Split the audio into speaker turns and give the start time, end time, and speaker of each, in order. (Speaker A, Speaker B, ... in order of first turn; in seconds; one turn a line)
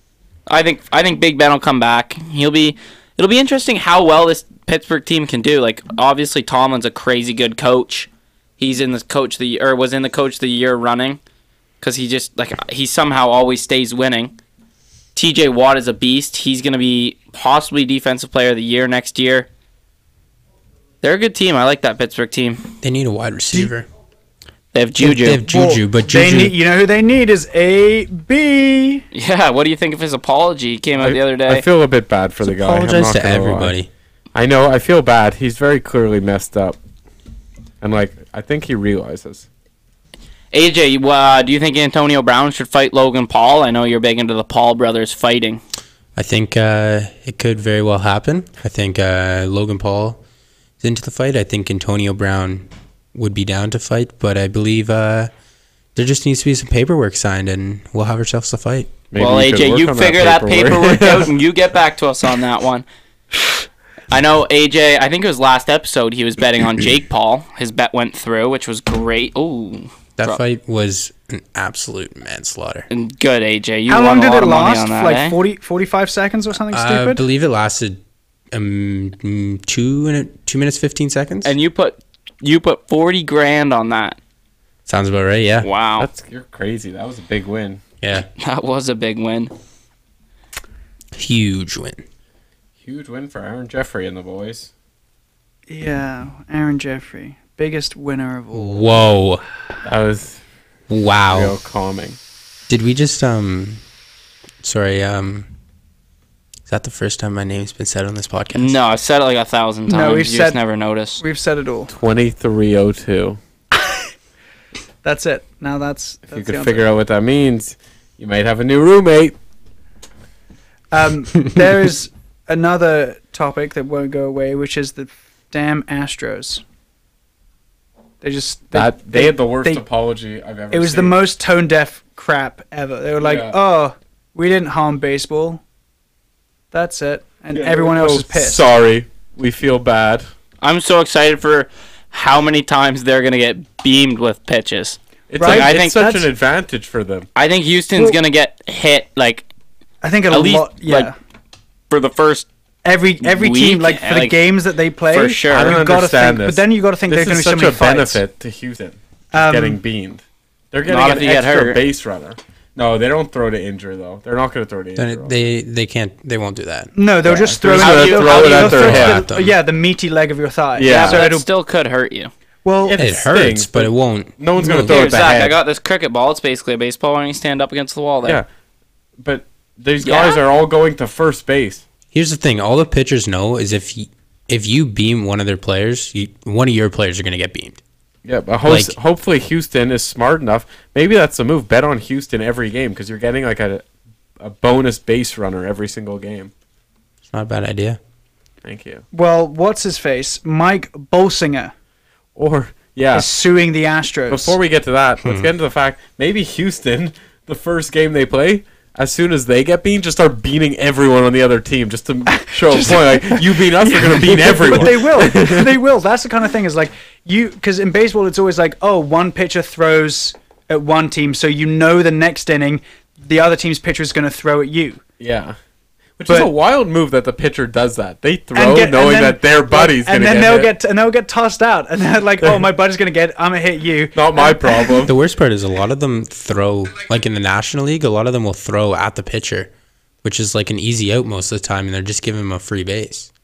Speaker A: 0.5-11.2
Speaker A: 11.8-14.3
Speaker A: 15.2-19.5
Speaker A: 21.0-22.7
Speaker B: 22.8-23.9
Speaker A: 24.7-25.4
Speaker B: 25.0-26.6
Speaker C: 25.4-29.1
Speaker A: 29.1-31.6
Speaker D: 31.0-33.7
Speaker B: 32.4-33.9
Speaker D: 34.3-36.8
Speaker D: 37.8-39.5
Speaker A: 40.5-45.6
Speaker B: 46.2-50.2
Speaker B: 50.8-55.3
Speaker B: 56.0-59.0
Speaker D: 59.1-61.3
Speaker A: 59.2-62.9
Speaker A: 64.1-70.4
Speaker B: 70.2-72.9
Speaker A: 72.9-75.4
Speaker C: 73.9-77.2
Speaker B: 76.7-78.0
Speaker B: 78.5-81.5
Speaker A: 81.4-84.2
Speaker B: 84.9-85.7
Speaker A: 85.6-86.1
Speaker D: 86.0-87.8
Speaker B: 88.0-88.3
Speaker A: 88.4-89.5
Speaker B: 91.2-92.0
Speaker D: 92.8-94.7
Speaker C: 95.7-99.0
Speaker B: 98.5-99.4
Speaker D: 99.8-100.4
Speaker B: 100.9-101.5
Speaker D: 101.3-102.2
Speaker B: 102.7-103.8
Speaker B: 104.6-105.5
Speaker B: 106.7-108.8
Speaker A: 108.5-111.2
Speaker C: 109.9-110.6
Speaker C: 111.2-111.9
Speaker D: 111.9-113.4
Speaker C: 115.0-116.9
Speaker D: 116.3-119.4
Speaker C: 120.9-126.6
Speaker C: 128.2-129.8
Speaker D: 128.7-131.2
Speaker C: 130.7-135.6
Speaker D: 133.2-133.6
Speaker C: 136.7-138.6
Speaker D: 137.5-140.3
Speaker A: 140.6-146.0
Speaker D: 145.3-147.3
Speaker C: 145.4-146.3
Speaker A: 147.4-149.5
Speaker C: 150.0-151.2
Speaker A: 150.3-151.1
Speaker A: 151.9-152.5
Speaker C: 152.8-158.2
Speaker A: 153.2-154.4
Speaker A: 155.1-155.8
Speaker D: 155.5-165.4
Speaker C: 159.3-159.8
Speaker A: 160.9-161.8
Speaker B: 165.0-166.9
Speaker C: 166.9-171.5
Speaker D: 167.2-169.2
Speaker A: 167.7-168.9
Speaker B: 168.7-169.5
Speaker D: 170.8-171.3
Speaker A: 170.8-172.3
Speaker C: 172.7-173.0
Speaker D: 172.8-175.6
Speaker B: 173.0-175.2
Speaker A: 174.7-178.4
Speaker D: 179.2-181.8
Speaker A: 180.0-180.4
Speaker B: 182.1-187.8
Speaker D: 188.2-193.8
Speaker B: 188.7-188.9
Speaker D: 194.4-196.5
Speaker B: 197.3-198.0
Speaker D: 198.6-199.0
Speaker C: 199.1-201.7
Speaker D: 202.4-203.3
Speaker C: 203.1-204.6
Speaker D: 204.3-215.8
Speaker B: 205.2-205.5
Speaker C: 212.3-225.0
Speaker D: 225.2-225.6
Speaker D: 226.2-230.7
Speaker C: 228.5-235.1
Speaker D: 234.2-235.2
Speaker B: 235.1-239.7
Speaker B: 240.2-243.3